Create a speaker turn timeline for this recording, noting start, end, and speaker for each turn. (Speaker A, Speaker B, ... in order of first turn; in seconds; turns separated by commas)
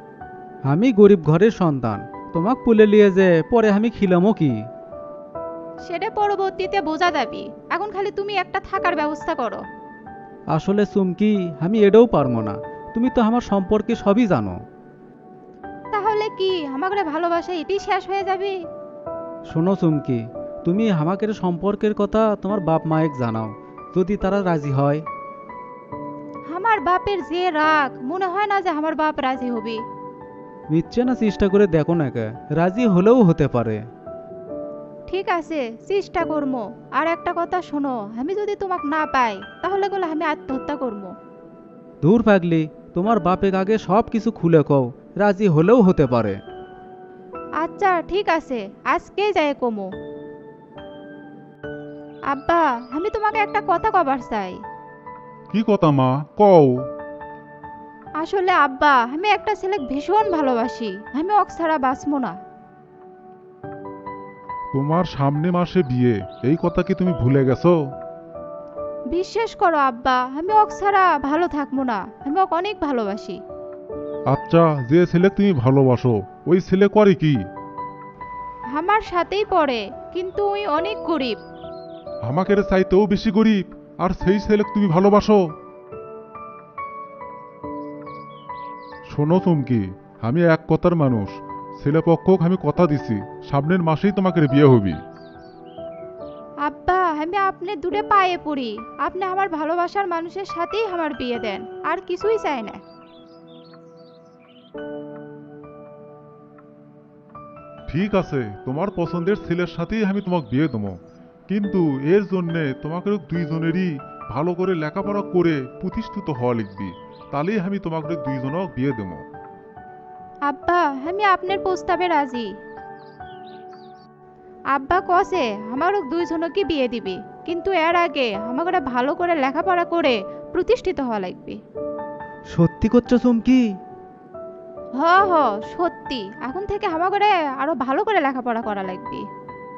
Speaker A: 0.7-4.5, Speaker B: 5.9-9.6, Speaker A: 10.5-14.6, Speaker B: 15.9-18.6, Speaker A: 19.5-25.0, Speaker B: 26.5-29.8, Speaker A: 30.7-33.8, Speaker B: 35.1-41.1, Speaker A: 42.0-46.4, Speaker B: 47.6-49.9, Speaker B: 52.3-54.6, Speaker C: 55.5-56.7, Speaker B: 58.2-62.4, Speaker C: 64.7-67.8, Speaker B: 69.1-73.4, Speaker C: 74.3-77.4, Speaker B: 78.7-81.4, Speaker C: 82.2-85.4, Speaker C: 89.1-95.0, Speaker B: 96.7-102.8, Speaker C: 107.9-111.0, Speaker C: 111.5-119.2, Speaker B: 120.5-122.5, Speaker B: 124.7-131.6, Speaker A: 132.5-133.7, Speaker B: 135.0-139.2